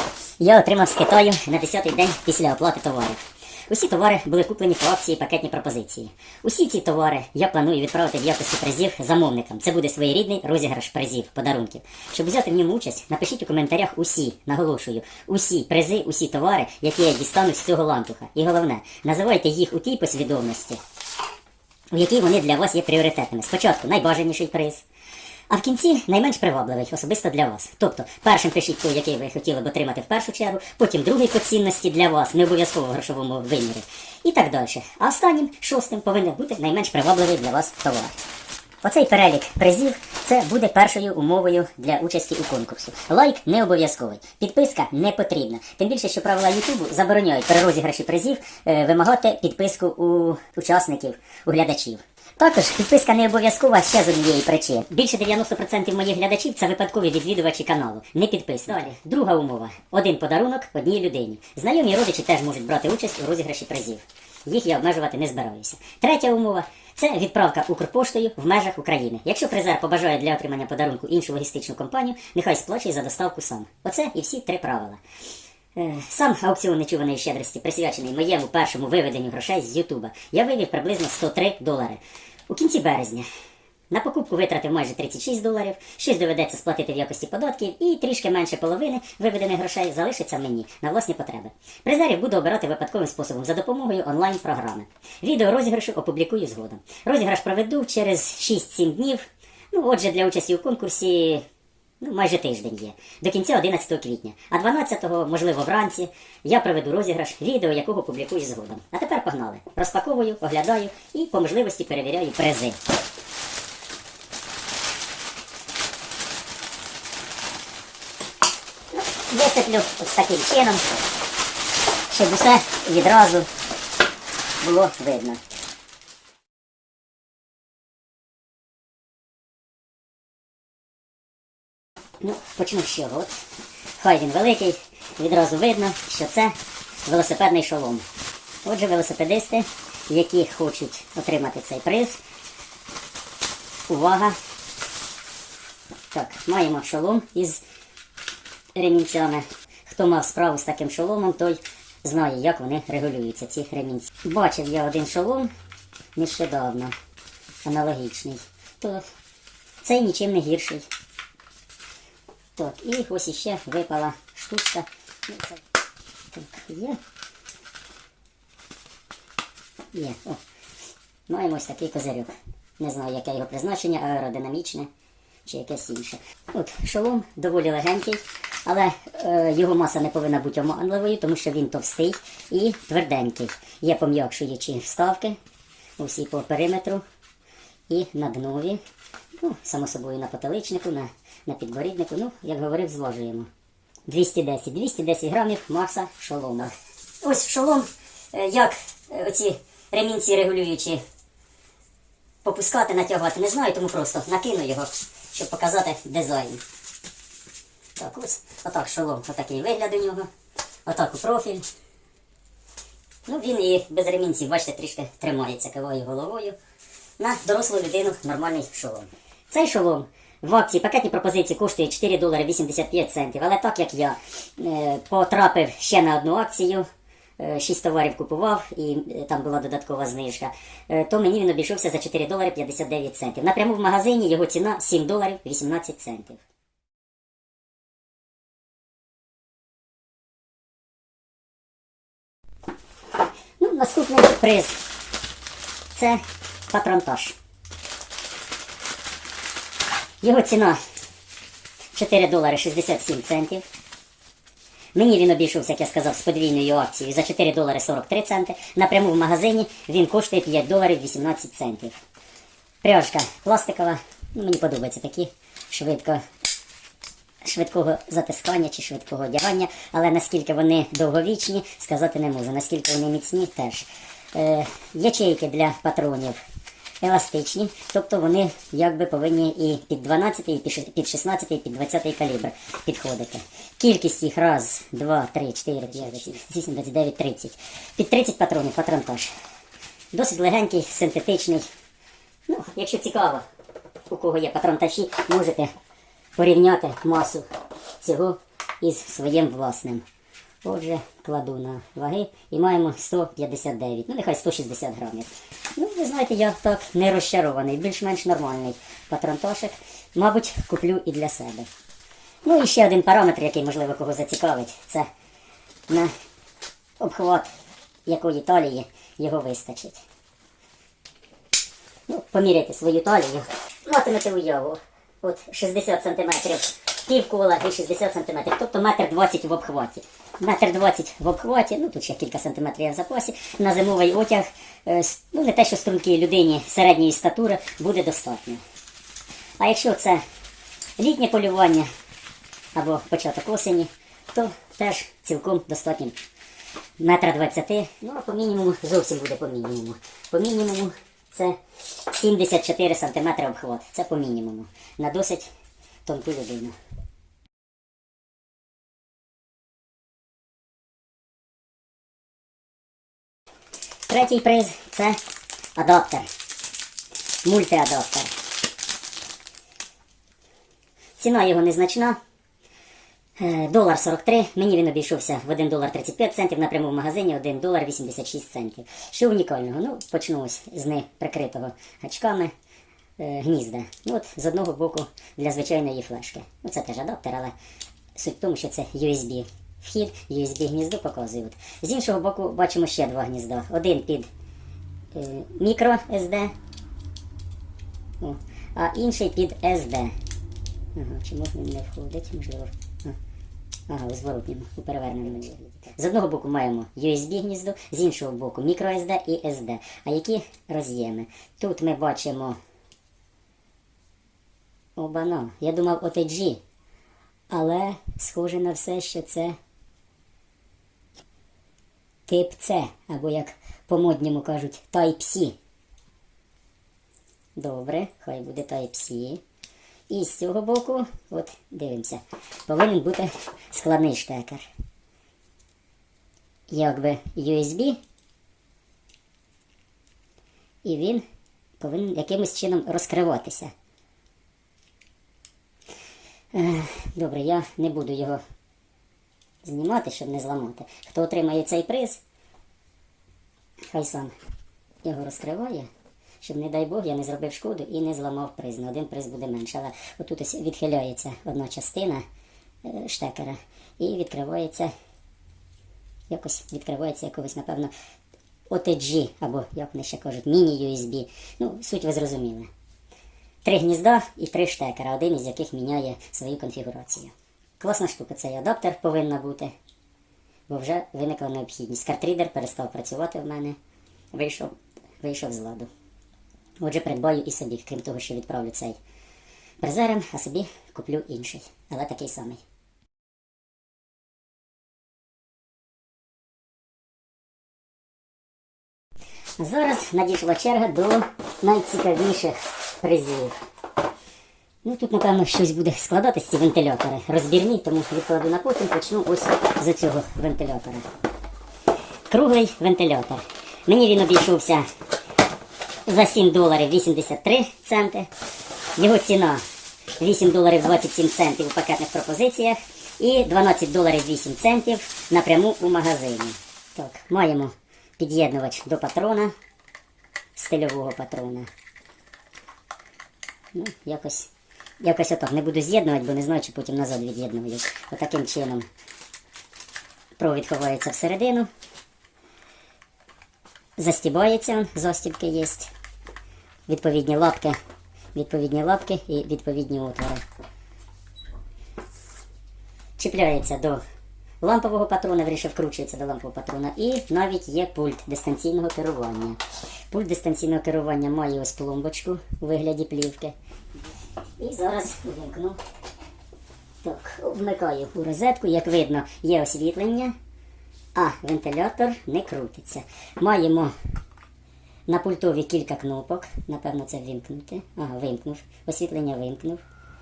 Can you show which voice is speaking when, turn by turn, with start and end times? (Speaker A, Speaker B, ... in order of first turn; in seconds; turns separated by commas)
Speaker A: 0.4-20.8, Speaker A: 21.9-24.8, Speaker A: 25.5-38.2, Speaker A: 38.8-75.0, Speaker A: 75.8-83.2, Speaker A: 83.9-101.4, Speaker A: 102.0-112.8, Speaker A: 118.9-120.9, Speaker A: 122.1-123.5, Speaker A: 124.6-125.4, Speaker A: 132.2-133.4, Speaker A: 134.0-138.1, Speaker A: 138.6-142.2, Speaker A: 143.9-144.4, Speaker A: 146.1-147.6, Speaker A: 148.8-155.5, Speaker A: 156.2-156.9, Speaker A: 157.7-159.1, Speaker A: 159.8-160.9, Speaker A: 162.6-165.6, Speaker A: 166.3-167.0, Speaker A: 169.9-170.4, Speaker A: 171.3-174.9, Speaker A: 175.4-185.4, Speaker A: 186.0-187.0, Speaker A: 187.9-188.8, Speaker A: 189.4-193.5, Speaker A: 194.1-201.0, Speaker A: 202.4-206.6, Speaker A: 208.0-210.3, Speaker A: 210.9-211.7, Speaker A: 213.3-216.6, Speaker A: 217.2-226.9, Speaker A: 227.4-236.4, Speaker A: 243.6-244.8, Speaker A: 245.9-247.3, Speaker A: 250.2-250.8, Speaker A: 251.9-253.7, Speaker A: 254.9-262.0, Speaker A: 262.8-266.2, Speaker A: 267.4-276.4, Speaker A: 277.0-289.3, Speaker A: 290.1-291.7, Speaker A: 292.5-293.4, Speaker A: 294.1-295.7, Speaker A: 296.4-297.4, Speaker A: 298.0-300.0, Speaker A: 300.6-311.7, Speaker A: 312.4-315.1, Speaker A: 317.0-317.5, Speaker A: 318.1-320.0, Speaker A: 322.1-338.6, Speaker A: 339.6-340.2, Speaker A: 341.0-341.9, Speaker A: 342.8-346.2, Speaker A: 347.0-355.5, Speaker A: 356.1-356.8, Speaker A: 364.1-365.2, Speaker A: 365.8-366.3, Speaker A: 367.4-368.3, Speaker A: 371.2-372.2, Speaker A: 373.4-382.5, Speaker A: 383.2-387.5, Speaker A: 388.1-394.3, Speaker A: 395.1-396.5, Speaker A: 398.2-400.1, Speaker A: 400.9-403.2, Speaker A: 403.9-412.6, Speaker A: 415.0-416.6, Speaker A: 417.5-419.6, Speaker A: 422.3-425.6, Speaker A: 427.6-429.4, Speaker A: 430.1-434.7, Speaker A: 436.7-438.0, Speaker A: 440.8-441.2, Speaker A: 441.8-443.7, Speaker A: 446.5-448.4, Speaker A: 449.6-452.2, Speaker A: 453.9-454.3, Speaker A: 455.0-455.9, Speaker A: 456.4-462.2, Speaker A: 462.8-464.9, Speaker A: 466.3-467.9, Speaker A: 468.7-472.7, Speaker A: 473.6-479.7, Speaker A: 480.7-483.8, Speaker A: 484.3-485.9, Speaker A: 486.8-489.0, Speaker A: 489.8-492.6, Speaker A: 499.6-503.6, Speaker A: 504.8-511.1, Speaker A: 512.3-514.9, Speaker A: 516.1-518.3, Speaker A: 519.0-519.6, Speaker A: 520.2-529.5, Speaker A: 530.6-531.7, Speaker A: 533.7-538.9, Speaker A: 540.4-541.7, Speaker A: 544.0-545.9, Speaker A: 546.9-547.8, Speaker A: 548.4-550.4, Speaker A: 553.2-554.0, Speaker A: 554.6-563.5, Speaker A: 564.6-565.8, Speaker A: 567.0-570.4, Speaker A: 571.1-573.9, Speaker A: 575.1-579.8